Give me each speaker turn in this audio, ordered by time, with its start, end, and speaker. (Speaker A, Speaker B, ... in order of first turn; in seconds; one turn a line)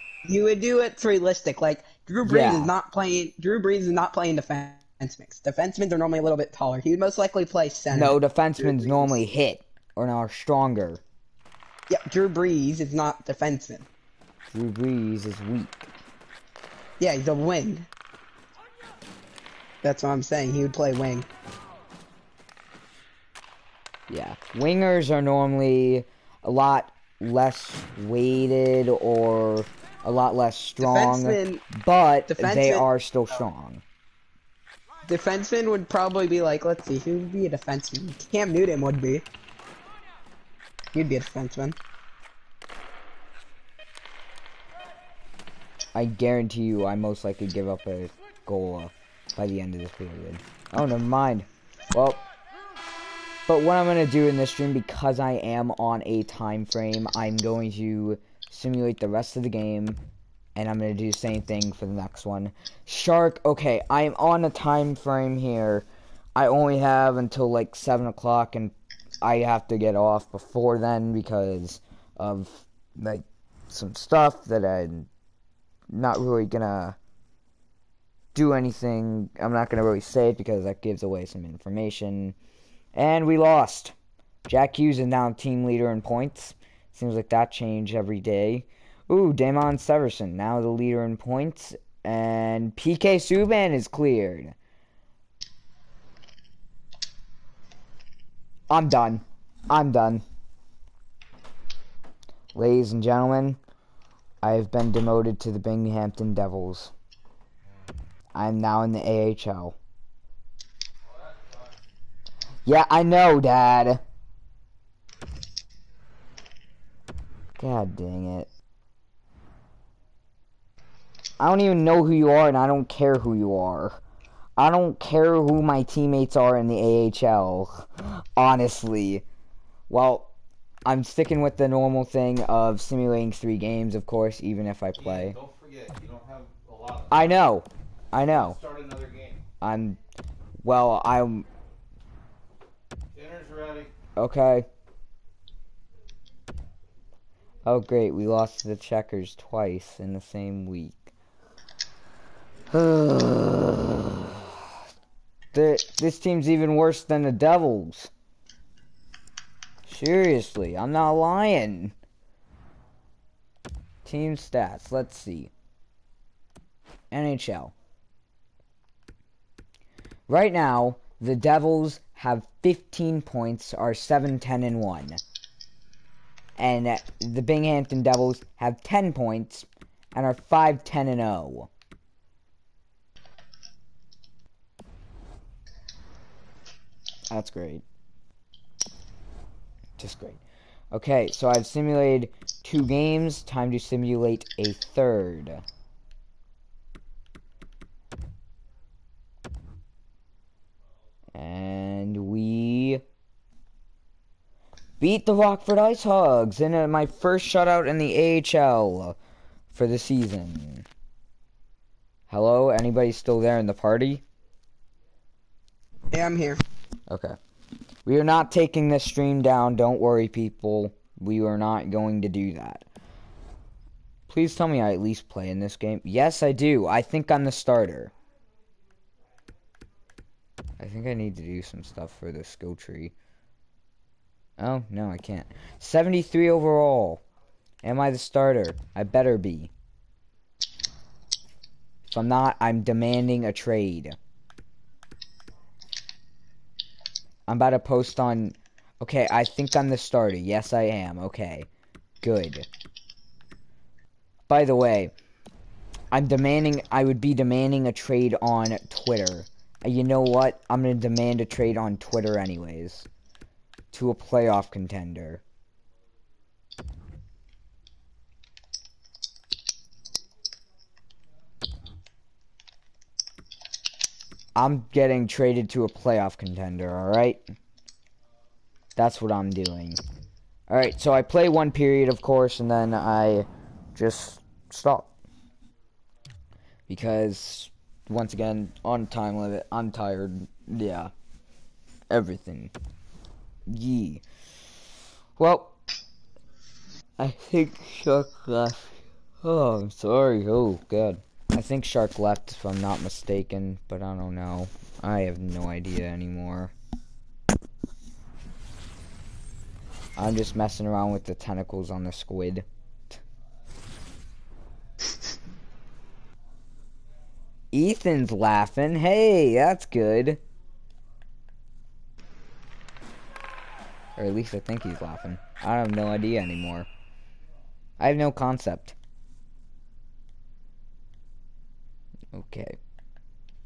Speaker A: 0.2-9.2
Speaker B: 2.2-2.7
Speaker B: 7.9-11.0
Speaker A: 11.9-13.9
Speaker B: 14.5-15.9
Speaker A: 17.0-17.9
Speaker A: 19.8-21.3
Speaker B: 24.1-33.8
Speaker A: 30.8-31.6
Speaker A: 32.3-32.9
Speaker A: 35.1-39.3
Speaker A: 40.9-41.8
Speaker B: 46.0-52.2
Speaker B: 53.5-60.0
Speaker B: 60.6-65.8
Speaker B: 66.4-75.1
Speaker B: 75.9-77.0
Speaker B: 78.3-82.3
Speaker B: 83.0-83.9
Speaker B: 84.5-94.5
Speaker B: 98.7-100.2
Speaker B: 102.5-103.6
Speaker B: 104.4-106.9
Speaker B: 108.3-109.8
Speaker C: 111.1-111.7
Speaker B: 112.7-114.0
Speaker B: 117.6-118.5
Speaker B: 121.4-124.0
Speaker B: 124.6-129.2
Speaker B: 129.9-130.3
Speaker B: 130.8-135.4
Speaker C: 135.0-137.3
Speaker B: 137.1-138.6
Speaker C: 138.2-139.4
Speaker B: 139.6-140.0
Speaker B: 140.6-141.5
Speaker C: 143.2-143.9
Speaker B: 144.2-144.7
Speaker B: 147.7-151.1
Speaker B: 152.7-154.4
Speaker B: 155.5-158.1
Speaker B: 159.9-161.9
Speaker B: 164.1-165.5
Speaker B: 167.1-167.7
Speaker B: 170.3-175.2
Speaker B: 176.6-181.7
Speaker B: 187.3-187.8
Speaker B: 190.0-190.4
Speaker B: 190.9-195.6
Speaker B: 201.3-203.0
Speaker B: 205.0-209.2
Speaker B: 209.7-210.9
Speaker B: 212.3-214.2
Speaker A: 216.1-216.6
Speaker B: 217.1-217.4
Speaker B: 218.1-222.8
Speaker B: 224.3-228.1
Speaker B: 230.8-233.1
Speaker B: 234.6-237.2
Speaker B: 237.8-239.7
Speaker B: 242.1-244.2
Speaker B: 247.5-251.7
Speaker B: 252.2-252.7
Speaker B: 254.5-255.1
Speaker B: 256.1-263.1
Speaker B: 263.9-265.4
Speaker B: 274.6-277.4
Speaker B: 279.0-280.0
Speaker B: 280.7-285.1
Speaker B: 286.9-291.1
Speaker B: 292.1-292.7
Speaker B: 293.7-294.2
Speaker B: 295.4-295.8
Speaker B: 297.2-306.7
Speaker B: 310.2-313.2
Speaker B: 317.7-320.4
Speaker B: 324.2-326.9
Speaker B: 328.0-328.9
Speaker B: 332.3-332.8